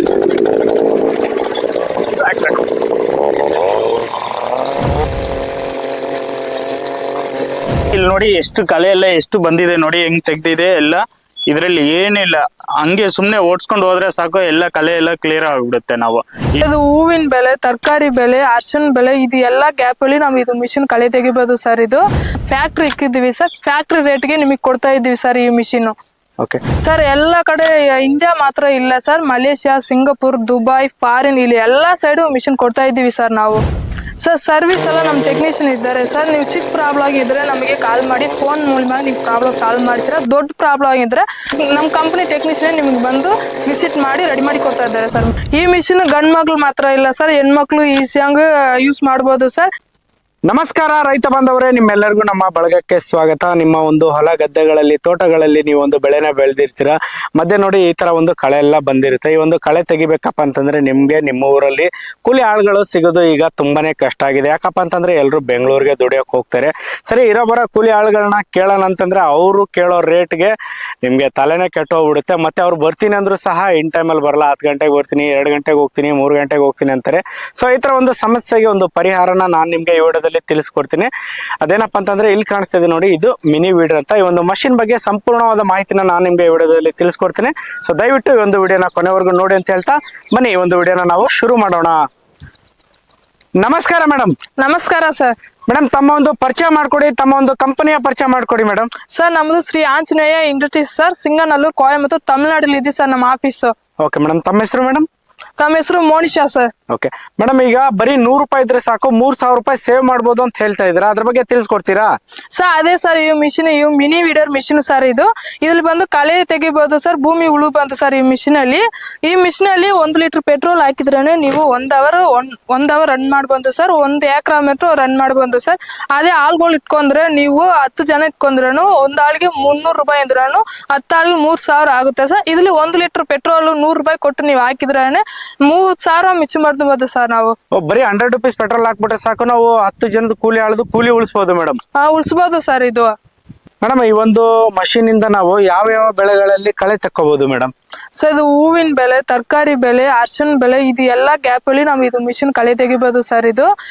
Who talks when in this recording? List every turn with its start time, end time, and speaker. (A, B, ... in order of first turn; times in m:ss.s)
0:02.1-0:02.6 A
0:07.9-0:16.6 A
0:16.6-0:26.0 B
0:26.8-0:33.6 B
0:34.2-0:49.7 B
0:50.5-1:21.1 C
1:21.6-1:32.0 C
1:33.6-1:34.3 C
1:34.6-1:35.3 B
1:35.7-1:38.9 C
1:39.1-1:43.7 B
1:44.0-1:45.1 C
1:45.6-1:46.7 B
1:46.9-1:52.1 C
1:52.6-2:17.6 B
2:17.7-2:21.8 C
2:22.0-2:23.1 B
2:23.8-2:27.7 C
2:28.2-2:33.7 B